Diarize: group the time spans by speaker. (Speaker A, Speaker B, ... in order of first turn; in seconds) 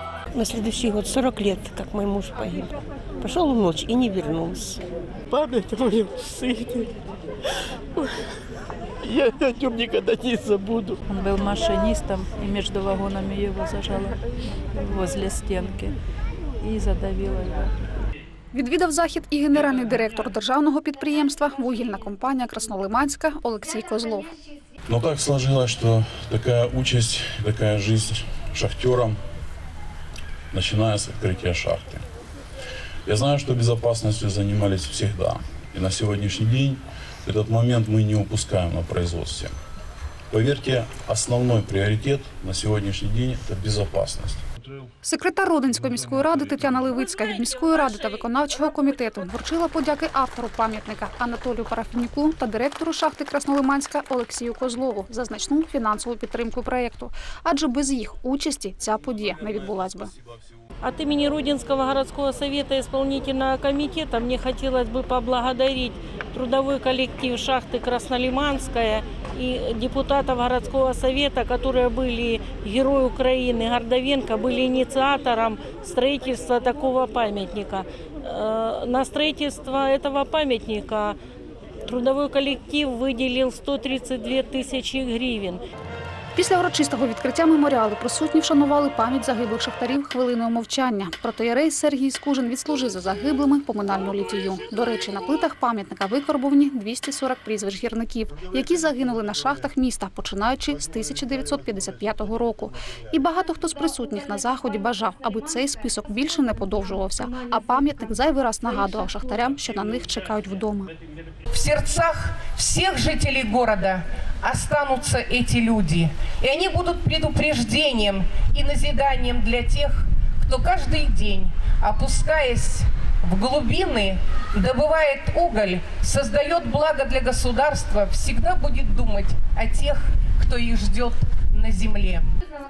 Speaker A: 0.3-4.8
Speaker B: 5.3-6.9, 8.0-8.2, 9.0-11.0
Speaker C: 11.1-14.2, 14.7-15.9, 16.6-17.9
Speaker D: 18.5-24.3, 45.0-60.1, 86.3-110.9
Speaker E: 24.9-29.2, 30.5-32.0, 33.0-39.5, 40.3-44.4
Speaker F: 60.8-81.2, 81.8-85.6
Speaker G: 111.5-132.3